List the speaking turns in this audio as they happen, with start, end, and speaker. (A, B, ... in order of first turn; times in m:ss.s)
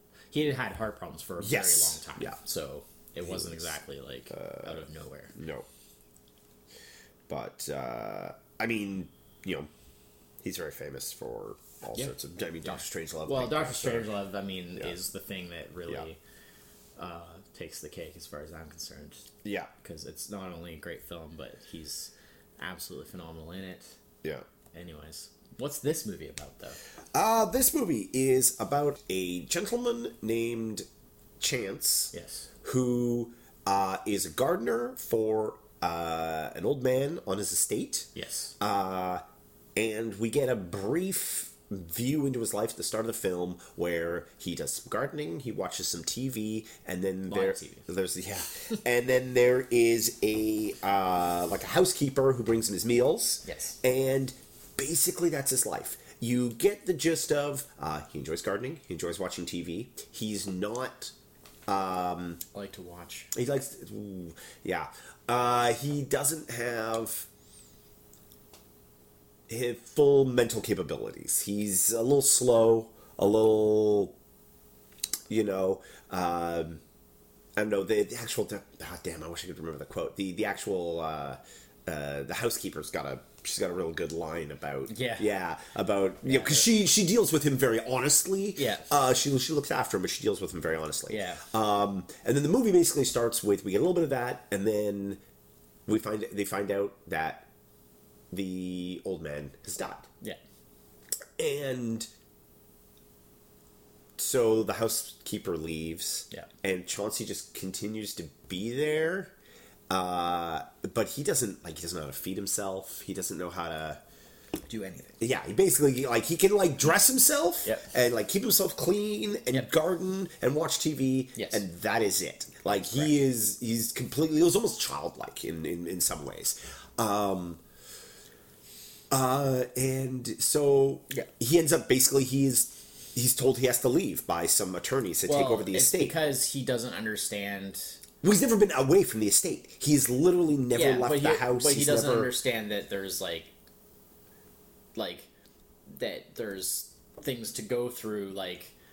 0:00.3-0:05.3 A
0:01.4-0:02.4 B
0:03.2-0:03.6 B
0:04.3-0:04.8 B
0:05.4-0:05.7 B
0:07.3-0:09.7 B
0:10.4-0:14.1 B
0:12.6-0:16.2 A
0:17.0-0:19.3 A
0:19.4-0:19.7 B
0:19.8-0:23.9 A
0:24.7-0:26.8 A
0:27.2-0:30.9 B
0:31.4-0:39.2 B
0:32.1-0:32.5 A
0:38.2-0:38.5 A
0:39.8-1:01.1 B
0:47.3-0:47.8 A
0:53.4-0:53.8 A
1:01.7-1:02.4 B
1:02.5-1:03.3 A
1:03.3-1:07.3 B
1:09.5-1:14.1 B
1:15.3-1:16.8 B
1:17.6-1:35.2 B
1:24.9-1:25.3 A
1:26.2-1:26.7 A
1:28.6-1:28.9 A
1:31.1-1:31.4 A
1:35.9-1:37.5 B
1:38.3-1:40.1 B
1:41.4-1:42.1 B
1:44.2-1:49.3 B
1:49.9-1:54.0 B
1:54.7-1:55.2 A
1:55.2-2:07.6 B
2:01.4-2:01.6 A
2:02.8-2:03.1 A
2:09.1-2:16.2 B
2:15.3-2:18.0 A
2:18.2-2:22.3 B
2:20.7-2:23.5 A
2:25.0-2:25.3 A
2:25.9-2:28.7 A